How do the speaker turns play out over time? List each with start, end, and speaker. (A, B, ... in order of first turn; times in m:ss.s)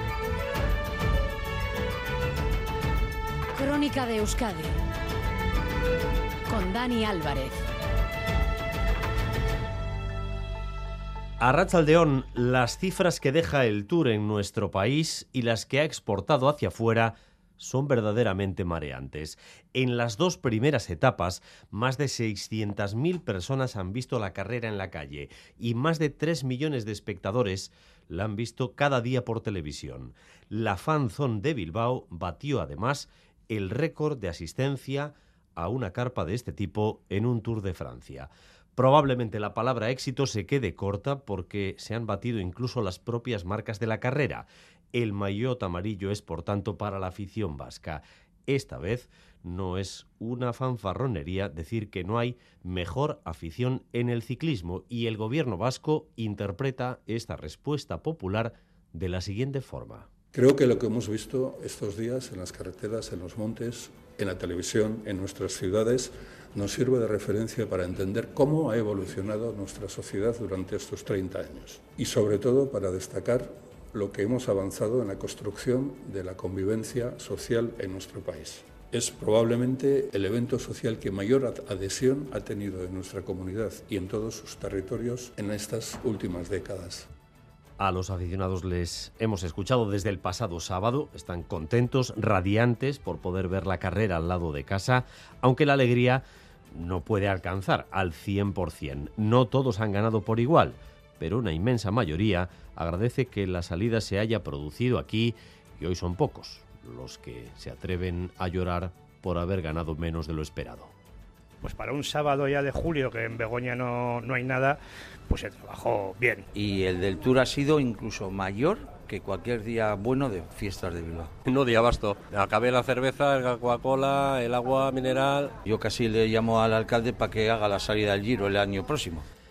0:03.6-0:04.7 A
0:06.5-0:07.6 A
0:11.4-1:00.1 B
1:00.3-1:27.1 C
1:27.8-1:50.9 B
1:51.6-1:54.8 D
1:55.3-1:56.4 D
1:56.5-2:01.3 E
2:01.5-2:05.5 F
2:05.6-2:09.2 E